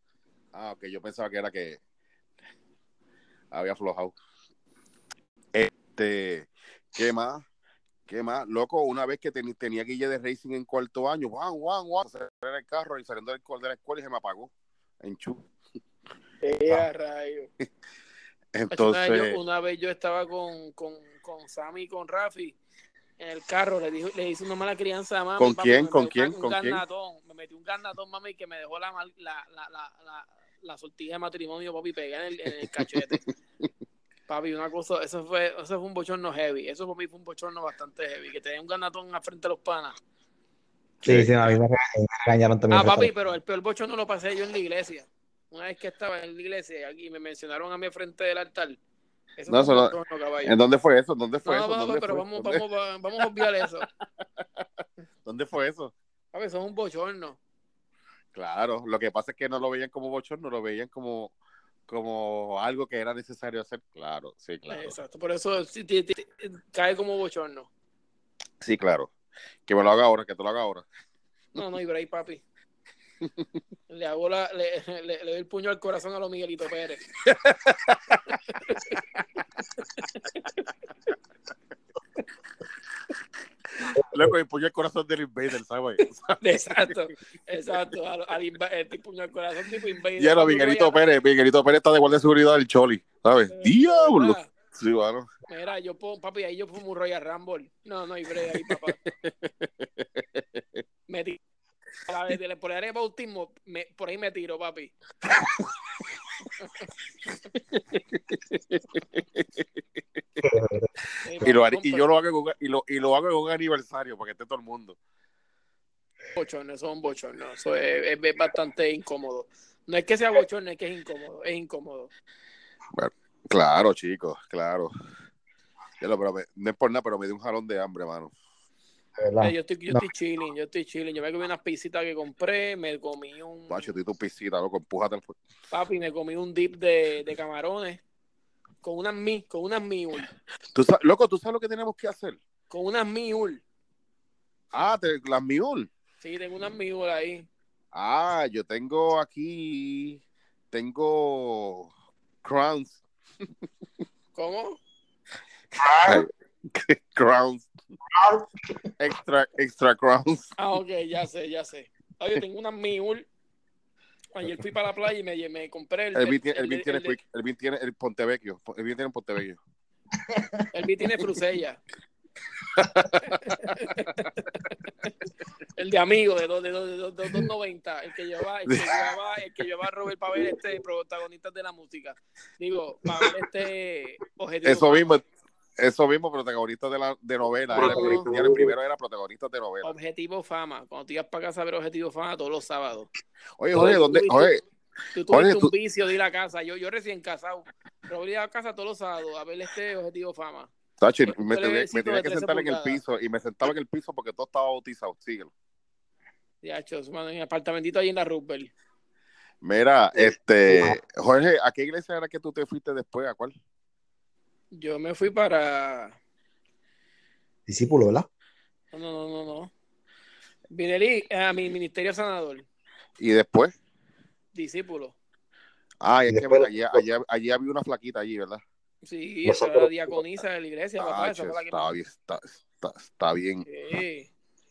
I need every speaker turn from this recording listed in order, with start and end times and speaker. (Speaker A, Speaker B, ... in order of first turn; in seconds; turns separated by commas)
Speaker A: 0.5-1.8, Speaker A: 3.5-4.1, Speaker A: 5.5-7.4, Speaker A: 8.1-14.5, Speaker A: 15.0-15.4, Speaker B: 16.4-17.5, Speaker A: 18.5-19.4, Speaker B: 18.7-22.6, Speaker B: 23.2-33.2, Speaker A: 25.4-26.8, Speaker B: 34.3-40.0, Speaker A: 41.0-41.3, Speaker C: 41.0-43.1, Speaker B: 42.7-48.8, Speaker B: 49.4-50.6, Speaker A: 49.5-52.6, Speaker B: 51.5-53.9, Speaker A: 55.2-55.9, Speaker B: 56.3-57.4, Speaker A: 58.3-61.3, Speaker A: 61.9-64.9, Speaker B: 64.7-67.7, Speaker A: 68.6-69.1, Speaker A: 69.7-70.8, Speaker B: 71.5-72.4, Speaker B: 73.9-77.0, Speaker A: 77.2-78.4, Speaker B: 78.5-79.0, Speaker B: 80.3-80.5, Speaker A: 83.8-86.4, Speaker C: 84.0-84.3, Speaker B: 86.4-91.0, Speaker A: 90.2-95.3, Speaker B: 93.5-94.5, Speaker B: 95.5-99.0, Speaker A: 98.5-100.6, Speaker B: 101.1-101.4, Speaker B: 102.1-104.9, Speaker B: 106.6-106.9, Speaker A: 107.9-109.7, Speaker C: 110.4-110.9, Speaker B: 111.2-112.0, Speaker A: 111.4-115.0, Speaker B: 116.3-122.1, Speaker A: 122.9-124.9, Speaker A: 126.0-128.3, Speaker C: 129.2-130.0, Speaker B: 129.4-133.9, Speaker A: 133.7-135.3, Speaker B: 135.7-138.0, Speaker B: 138.8-140.3, Speaker A: 140.7-142.4, Speaker B: 142.7-143.6, Speaker A: 144.7-145.9, Speaker B: 146.2-147.5, Speaker A: 147.9-151.9, Speaker A: 152.4-153.0, Speaker B: 154.3-154.8, Speaker C: 155.8-156.2, Speaker A: 156.0-157.7, Speaker C: 158.1-158.5, Speaker A: 159.0-160.5, Speaker B: 160.6-163.3, Speaker B: 164.3-167.2, Speaker A: 166.1-169.6, Speaker C: 170.2-170.7, Speaker B: 170.7-171.8, Speaker A: 172.7-173.4, Speaker B: 173.2-174.8, Speaker B: 175.8-185.1, Speaker A: 178.7-179.0, Speaker A: 184.6-185.2, Speaker A: 185.8-189.9, Speaker B: 187.7-188.3, Speaker C: 187.7-188.7, Speaker B: 189.8-193.1, Speaker A: 193.6-194.6, Speaker B: 193.7-194.5, Speaker B: 195.1-200.7, Speaker A: 195.3-195.7, Speaker A: 201.0-205.5, Speaker B: 201.3-203.0, Speaker B: 206.6-208.7, Speaker A: 209.6-213.5, Speaker C: 210.1-211.0, Speaker B: 214.7-216.2, Speaker C: 217.7-218.3, Speaker B: 218.9-219.7, Speaker B: 220.7-222.7, Speaker A: 223.2-223.7, Speaker B: 224.5-225.2, Speaker A: 226.0-228.6, Speaker C: 226.3-227.0, Speaker B: 229.0-231.9, Speaker C: 229.4-230.2, Speaker A: 231.0-233.7, Speaker B: 233.6-234.3